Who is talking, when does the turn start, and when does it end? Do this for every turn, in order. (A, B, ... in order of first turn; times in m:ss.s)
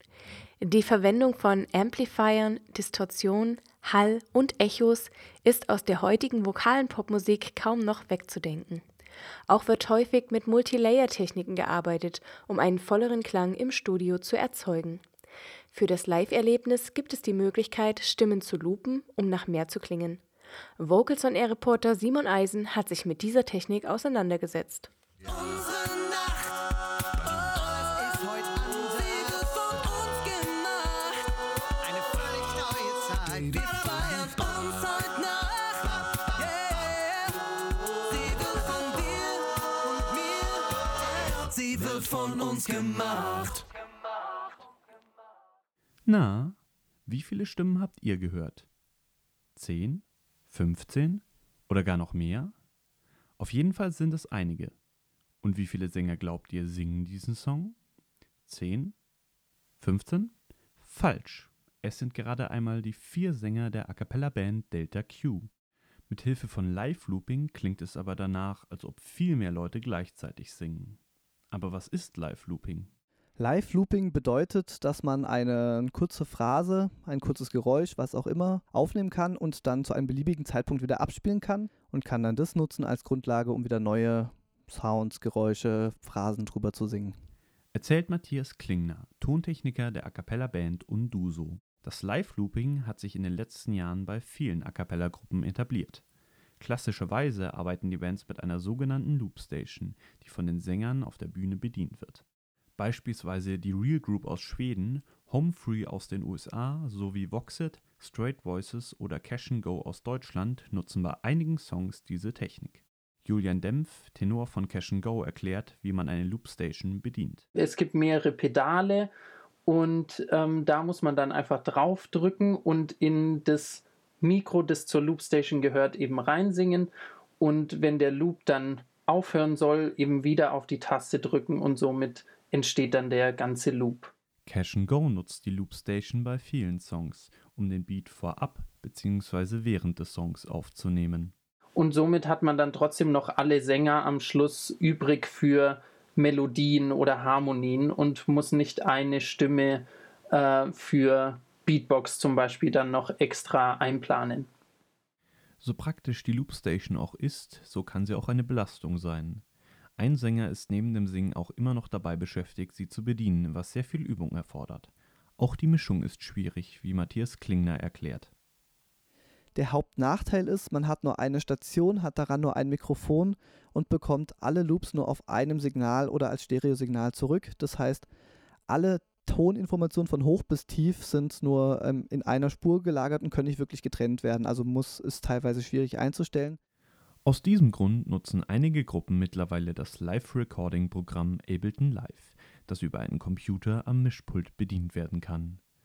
0:00.6-0:08.8 A
0:09.5-0:15.0 A
0:15.7-0:20.2 A
0:20.8-0:24.9 A
0:25.3-0:26.6 B
0:27.2-0:31.2 B
0:31.8-0:37.4 B
0:38.1-0:40.6 B
0:41.2-0:43.6 B
0:46.0-0:48.7 C
0:49.6-0:52.5 C
0:53.4-0:54.8 C
0:55.4-0:57.8 C
0:58.5-0:59.0 C
0:59.8-1:05.5 C
1:06.1-1:11.0 C
1:11.5-1:12.9 C
1:13.4-1:27.1 D
1:27.7-1:36.0 C
1:36.6-1:42.2 C
1:42.8-1:57.4 C
1:57.5-1:59.1 E
1:59.6-2:14.1 E
2:14.4-2:21.3 C
2:21.8-2:34.5 E
2:35.6-2:39.4 C
2:40.0-2:48.3 C
2:49.5-2:58.0 D
2:58.7-3:06.6 D
3:07.2-3:15.6 C